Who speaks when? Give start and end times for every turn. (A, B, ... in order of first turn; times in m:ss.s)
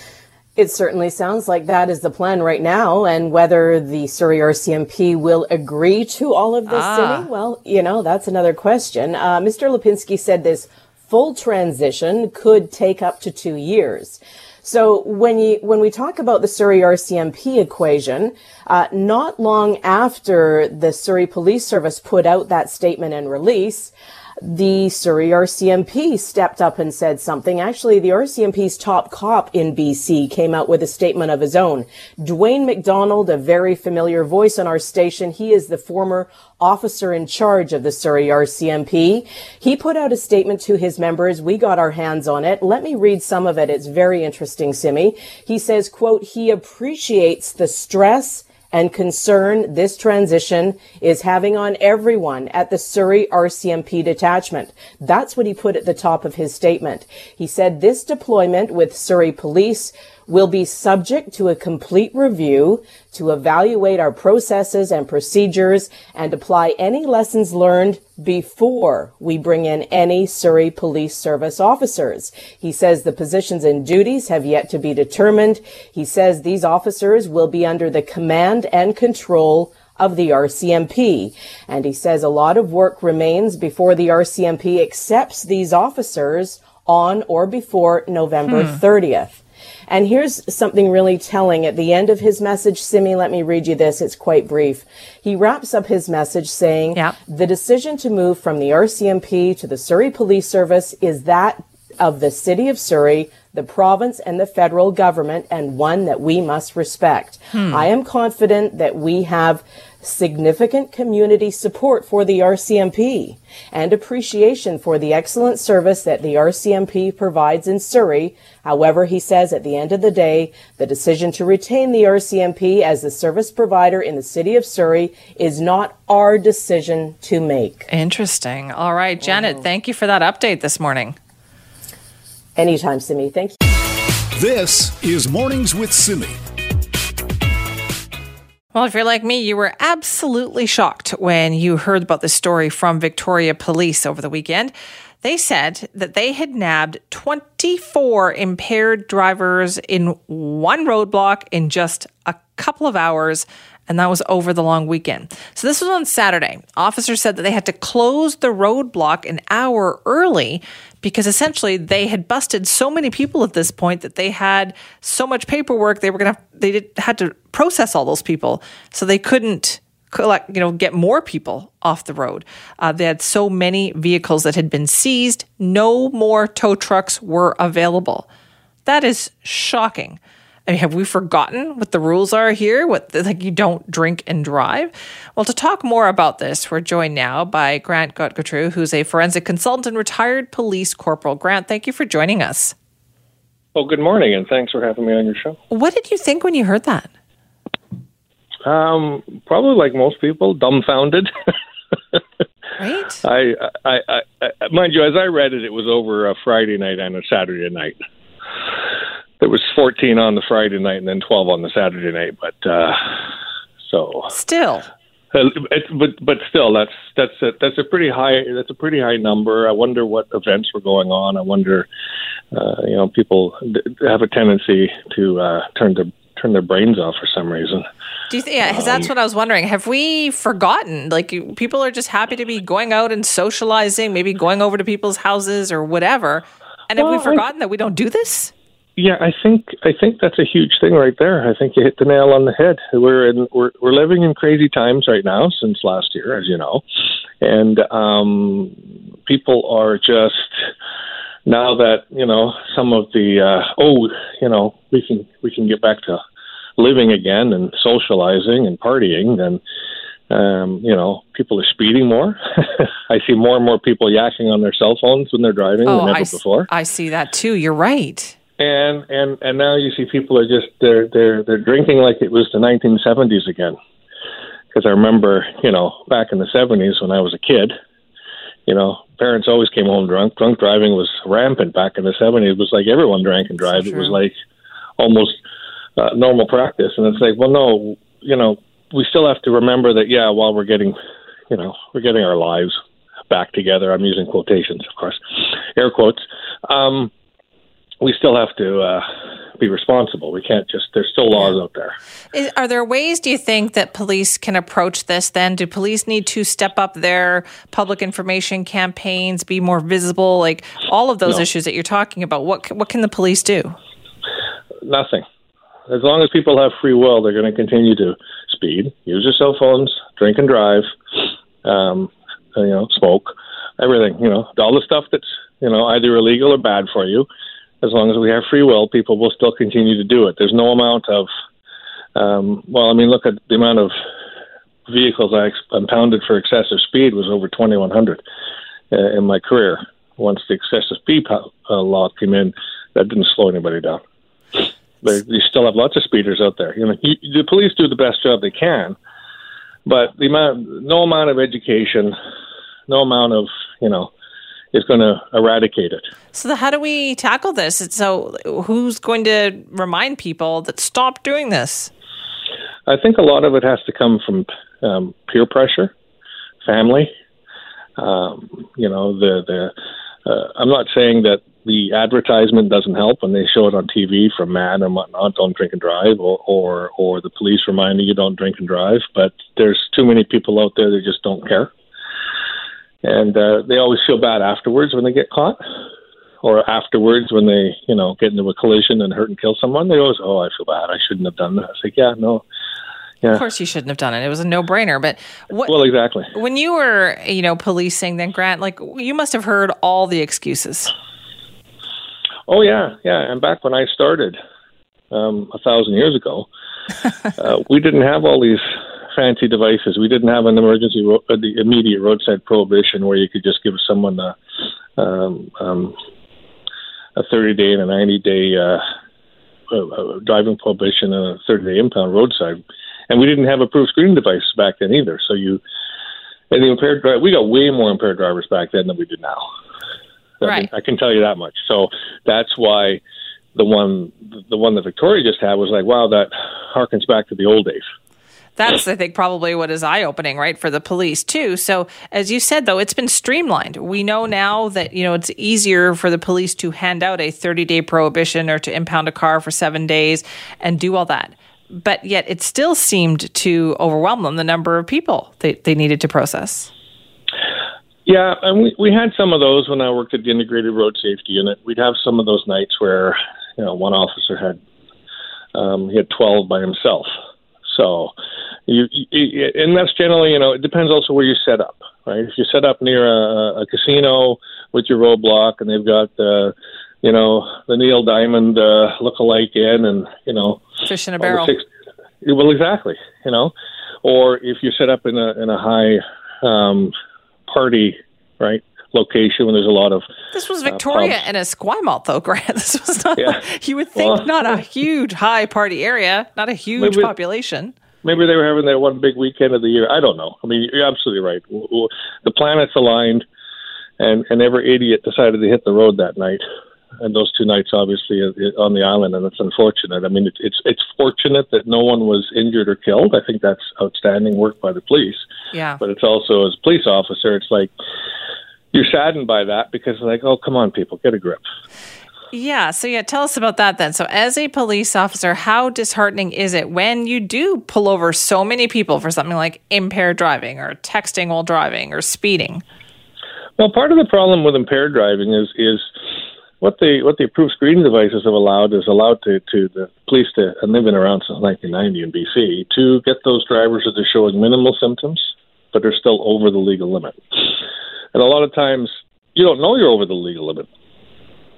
0:00.6-2:07.9 A
0:06.7-0:07.3 B
1:28.5-1:28.8 B
1:47.5-1:47.8 B
2:07.9-2:11.2 B
2:12.6-2:13.6 A
2:14.4-2:16.4 C
2:18.7-2:58.3 B
2:58.9-3:12.7 B
3:13.8-3:15.6 D
3:15.7-3:17.1 B
3:18.6-3:21.3 D
3:22.8-3:23.2 B
3:23.2-3:28.0 D
3:29.4-3:33.2 D
3:33.8-3:34.3 D
3:34.3-3:34.9 B
3:35.3-3:41.9 D
3:42.5-3:47.8 D
3:48.3-3:58.5 B
3:48.6-3:49.1 D
3:57.0-3:57.4 D
3:59.0-4:06.8 D
4:07.4-4:10.6 D
4:11.5-4:16.2 D
4:16.8-4:19.6 D
4:20.3-4:26.7 D
4:25.8-4:28.4 B
4:28.6-4:33.8 D
4:34.7-4:37.8 D
4:38.7-4:44.3 D
4:43.7-4:44.2 B
4:45.0-4:45.4 D
4:46.0-4:51.0 D
4:51.5-4:52.8 D
4:53.3-4:55.2 D
4:55.8-4:57.1 D
4:58.0-4:59.1 D
4:59.6-5:02.0 D
5:02.3-5:13.8 B
5:14.8-5:15.2 D
5:15.9-5:20.9 D
5:21.6-5:27.3 D
5:27.8-5:31.3 D
5:32.2-5:34.0 D
5:34.9-5:38.2 D
5:38.9-5:44.0 D
5:44.6-5:49.0 D
5:49.9-5:52.2 D
5:52.9-5:54.1 D
5:54.7-5:56.0 D
5:56.3-6:01.9 B
6:02.9-6:05.9 D
6:06.6-6:07.1 D
6:08.0-6:09.7 D
6:10.3-6:21.7 D
6:23.0-6:25.6 D
6:26.4-6:32.4 D
6:33.3-6:35.8 B
6:35.6-6:36.3 D
6:36.3-6:40.9 B
6:42.5-6:44.4 D
6:45.1-6:46.5 D
6:47.4-6:54.4 D
6:55.0-6:56.0 D
6:57.2-6:58.8 D
6:59.7-7:05.6 D
7:06.5-7:09.5 D
7:10.4-7:13.0 D
7:10.4-7:10.7 B
7:13.6-7:17.8 D
7:18.6-7:36.7 B
7:38.1-7:44.6 D
7:45.6-7:47.1 D
7:47.7-7:48.1 D
7:48.7-8:00.7 D
8:00.8-8:01.5 B
8:01.2-8:01.6 D
8:02.2-8:06.9 D
8:07.5-8:10.0 D
8:10.3-8:17.7 B
8:10.7-8:11.2 D
8:14.0-8:14.5 D
8:16.8-8:17.2 D
8:18.0-8:23.3 D
8:24.0-8:26.4 D
8:27.0-8:35.2 D
8:35.5-8:35.8 B
8:35.8-8:37.7 D
8:38.7-8:41.4 D
8:42.3-8:52.6 B
8:53.6-8:55.9 D
8:56.6-9:07.5 D
9:08.1-9:10.7 D